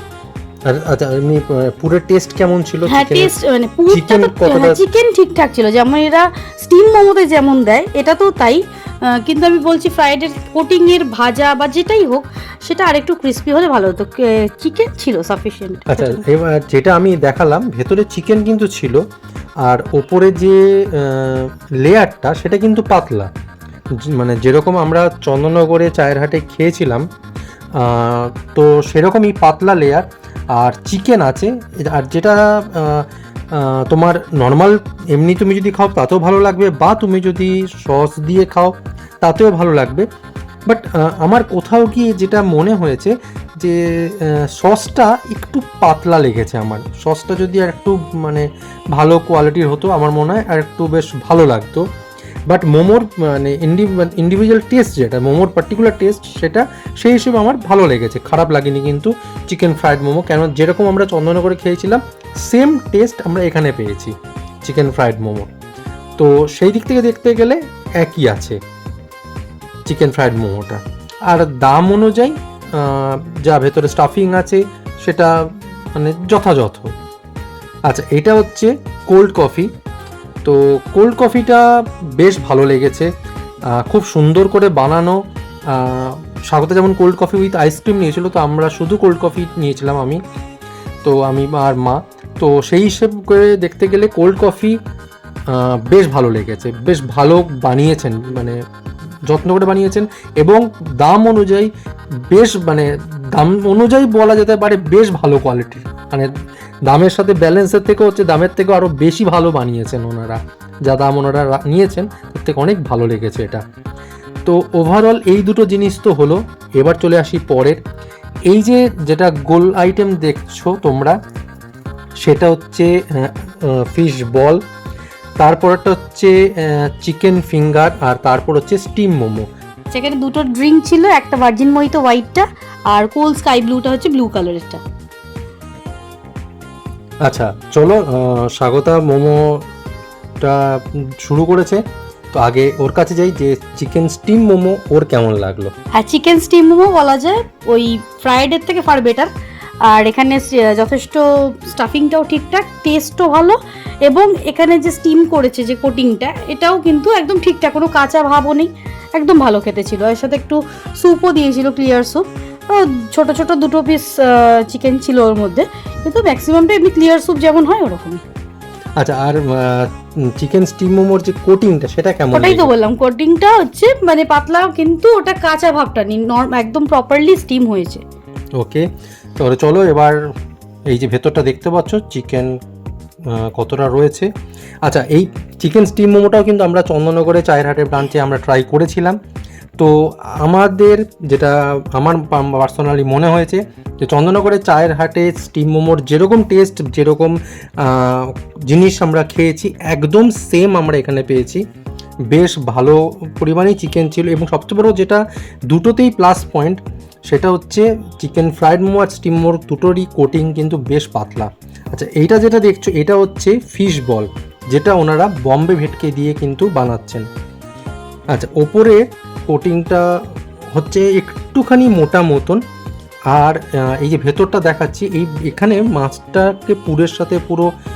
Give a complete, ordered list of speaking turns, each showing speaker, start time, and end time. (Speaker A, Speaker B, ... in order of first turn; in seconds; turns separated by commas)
Speaker A: 0.7-3.3, Speaker B: 2.9-16.2, Speaker A: 3.9-4.8, Speaker A: 15.9-19.0, Speaker A: 19.6-23.3, Speaker A: 24.0-27.0, Speaker A: 27.7-40.0, Speaker A: 40.7-51.8, Speaker A: 52.5-65.5, Speaker A: 66.2-68.6, Speaker A: 69.9-75.3, Speaker A: 76.0-76.9, Speaker A: 77.9-79.7, Speaker A: 80.4-81.6, Speaker A: 82.2-83.1, Speaker A: 83.8-85.2, Speaker A: 85.7-90.2, Speaker A: 91.0-94.8, Speaker A: 95.5-98.6, Speaker A: 99.3-101.7, Speaker A: 102.3-106.3, Speaker A: 106.9-113.6, Speaker A: 114.4-117.8, Speaker A: 118.5-121.1, Speaker A: 122.2-124.6, Speaker A: 125.4-129.4, Speaker B: 129.9-134.8, Speaker A: 137.2-139.6, Speaker A: 140.4-141.8, Speaker A: 142.3-145.7, Speaker B: 145.9-149.3, Speaker B: 149.9-168.2, Speaker A: 169.0-172.7, Speaker B: 172.3-178.0, Speaker A: 178.6-178.8, Speaker A: 179.4-180.2, Speaker A: 180.9-182.5, Speaker A: 183.3-184.3, Speaker A: 184.8-189.2, Speaker A: 189.8-201.6, Speaker A: 202.3-217.2, Speaker A: 218.3-220.1, Speaker A: 220.7-222.6, Speaker A: 223.3-227.7